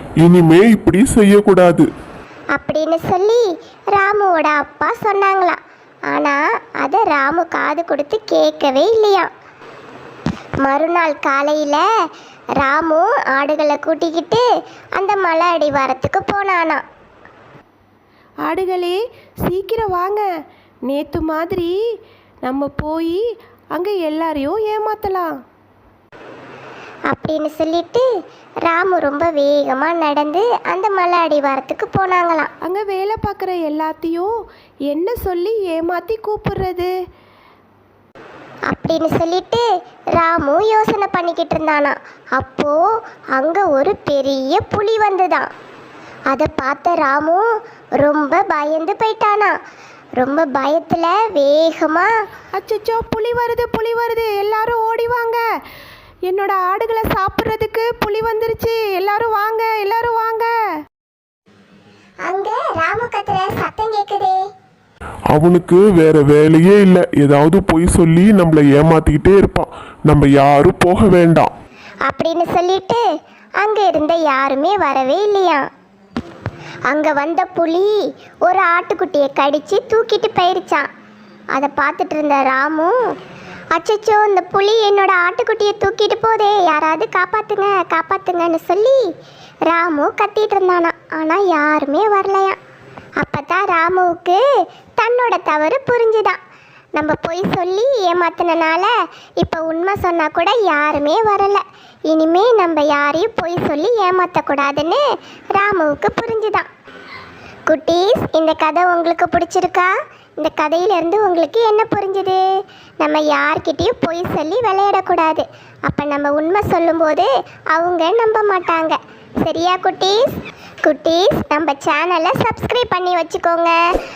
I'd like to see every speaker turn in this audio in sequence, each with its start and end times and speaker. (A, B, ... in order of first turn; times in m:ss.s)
0:00.2-0:01.9 A
0:02.6-0:03.4 B
0:03.9-0:05.6 B
0:06.1-0:09.3 B
0:10.6-0:11.8 B
0:12.6-0:14.4 B
0:15.0-0:16.8 B
0:18.5-0:20.2 C
0:20.9-0:21.7 C
0:22.4-0:23.2 C
0:23.8-0:25.3 C
0:27.1-0:28.0 B
0:28.7-0:32.5 B
0:32.7-0:34.3 C
0:34.9-0:36.9 C
0:38.7-0:39.6 B
0:40.2-0:42.8 B
0:43.4-0:45.5 B
0:46.3-0:47.4 B
0:48.0-0:49.5 B
0:50.2-0:52.1 B
0:52.6-0:55.4 C
0:56.3-1:00.5 C
1:02.2-1:04.4 B
1:05.3-1:11.5 A
1:12.1-1:13.0 B
1:13.6-1:15.7 B
1:16.9-1:20.9 B
1:21.5-1:23.0 B
1:23.7-1:29.0 B
1:29.7-1:32.6 B
1:33.2-1:34.4 B
1:35.0-1:36.4 B
1:37.0-1:45.0 B
1:45.5-1:46.7 B
1:47.7-1:52.4 B
1:53.0-2:00.3 B
2:00.8-2:03.8 B